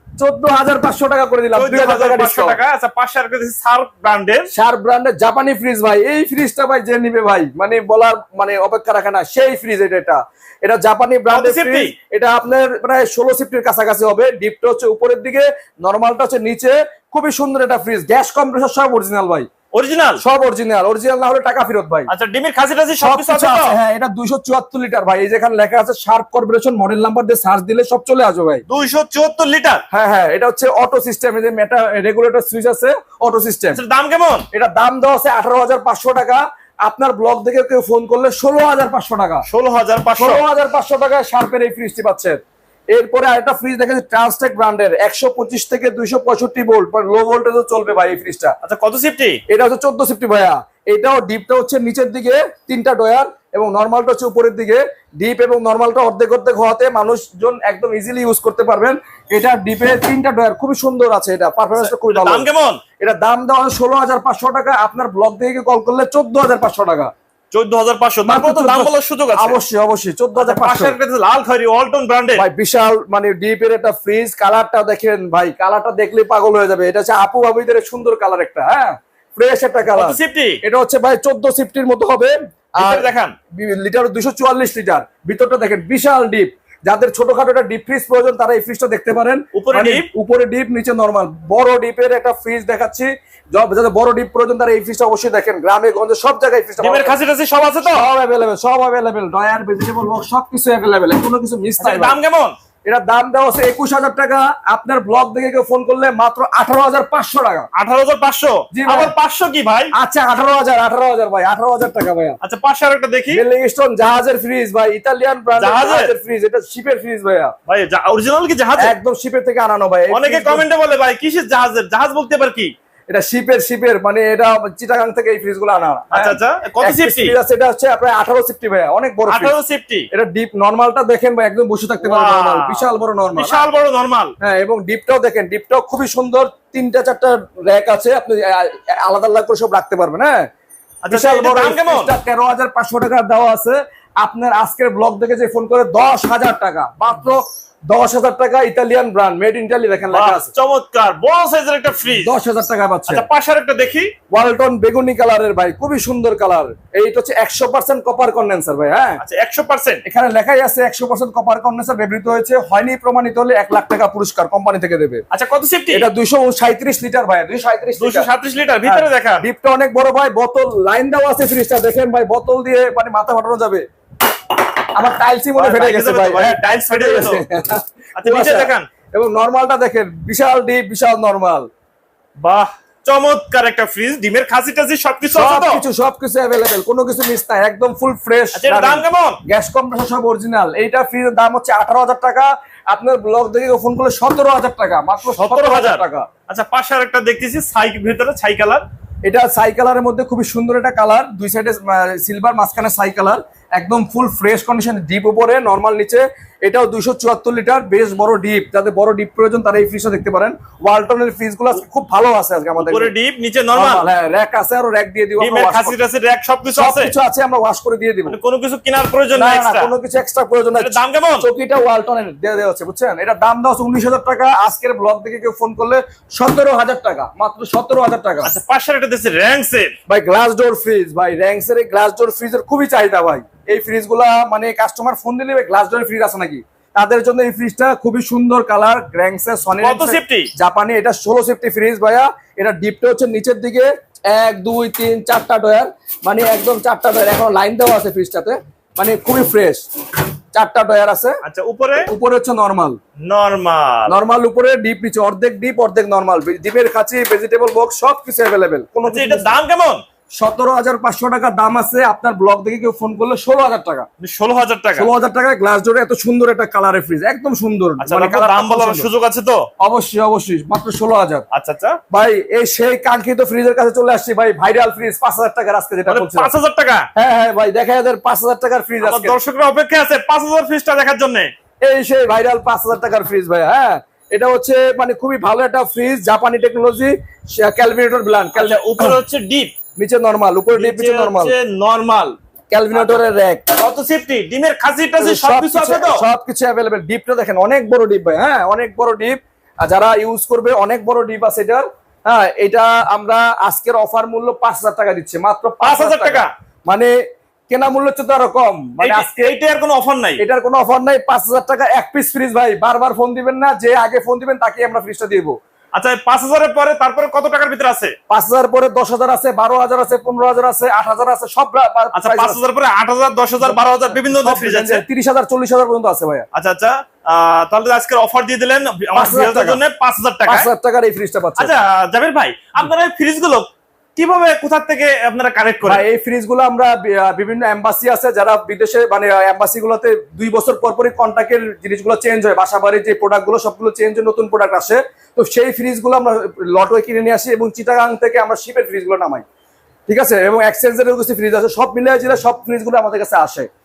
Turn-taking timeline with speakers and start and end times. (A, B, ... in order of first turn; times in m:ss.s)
0:00.2-0:02.6 A
0:01.6-0:04.5 B
0:04.5-0:19.5 A
0:11.3-0:11.9 B
0:19.7-0:20.2 B
0:20.2-0:22.1 A
0:22.1-0:23.8 B
0:23.0-0:28.6 A
0:28.7-0:29.8 B
0:29.9-0:33.8 A
0:33.8-0:34.5 B
0:34.5-0:39.5 A
0:39.5-0:40.4 B
0:40.2-0:42.4 A
0:42.9-0:48.5 A
0:48.6-0:49.4 B
0:49.5-1:02.5 A
1:01.8-1:02.8 B
1:03.0-1:07.1 A
1:07.5-1:09.6 B
1:08.2-1:11.0 A
1:10.4-1:12.4 B
1:12.4-1:37.1 A
1:19.9-1:20.6 B
1:22.8-1:23.3 B
1:29.5-1:30.1 B
1:36.8-1:38.1 B
1:37.9-1:42.2 A
1:41.8-1:42.6 B
1:42.8-1:47.7 A
1:47.7-1:49.9 B
1:48.7-1:49.1 A
1:49.9-1:52.4 A
1:52.4-1:53.4 B
1:53.3-1:57.5 A
1:55.6-1:56.1 B
1:57.7-1:58.9 B
1:58.8-2:00.6 A
2:00.1-2:02.7 B
2:03.1-2:09.5 A
2:06.1-2:07.3 B
2:09.3-2:10.1 B
2:10.1-2:13.7 A
2:12.0-2:14.3 B
2:14.4-2:20.5 A
2:21.0-2:22.1 B
2:21.1-2:30.5 A
2:30.1-2:32.3 B
2:32.2-2:33.2 A
2:33.1-2:34.1 B
2:34.3-2:39.2 A
2:39.2-2:40.0 B
2:40.0-2:45.2 A
2:45.3-2:46.1 B
2:45.9-2:48.3 A
2:48.0-2:49.5 B
2:48.8-2:53.8 A
2:55.0-3:01.7 A
2:55.6-2:57.4 B
2:58.2-2:58.9 B
3:02.4-3:05.8 B
3:05.3-3:16.3 A
3:08.6-3:09.4 B
3:15.3-3:18.8 B
3:19.2-3:33.1 A
3:32.8-3:34.0 B
3:33.7-3:36.0 A
3:35.4-3:37.1 B
3:36.7-3:38.4 A
3:38.2-3:39.9 B
3:39.3-3:48.5 A
3:40.8-3:41.5 B
3:48.4-3:49.9 B
3:50.1-4:09.9 A
3:59.8-4:00.5 B
4:10.5-4:11.4 A
4:11.4-4:12.1 B
4:12.1-4:13.0 A
4:13.2-4:14.1 B
4:14.1-4:19.6 A
4:19.0-4:20.0 B
4:20.4-4:24.1 A
4:24.2-4:25.1 B
4:25.0-4:29.1 A
4:28.0-4:29.7 B
4:29.8-4:31.5 A
4:31.5-4:32.0 B
4:32.1-4:36.5 A
4:36.1-4:37.1 B
4:37.2-4:39.4 A
4:39.0-4:41.5 B
4:41.8-4:49.2 A
4:48.6-4:49.7 B
4:50.0-4:51.5 A
4:50.8-4:52.4 B
4:52.7-4:53.6 A
4:52.9-4:56.2 B
4:55.2-5:07.1 A
5:05.8-5:06.5 B
5:07.7-5:09.5 A
5:09.0-5:10.4 B
5:10.4-5:15.6 A
5:16.0-5:18.1 B
5:18.3-5:22.6 A
5:22.1-5:25.0 B
5:23.6-5:26.5 A
5:26.5-5:30.7 B
5:29.1-5:29.8 A
5:30.5-5:31.7 A
5:31.6-5:36.0 B
5:35.8-5:49.4 A
5:50.1-5:53.7 A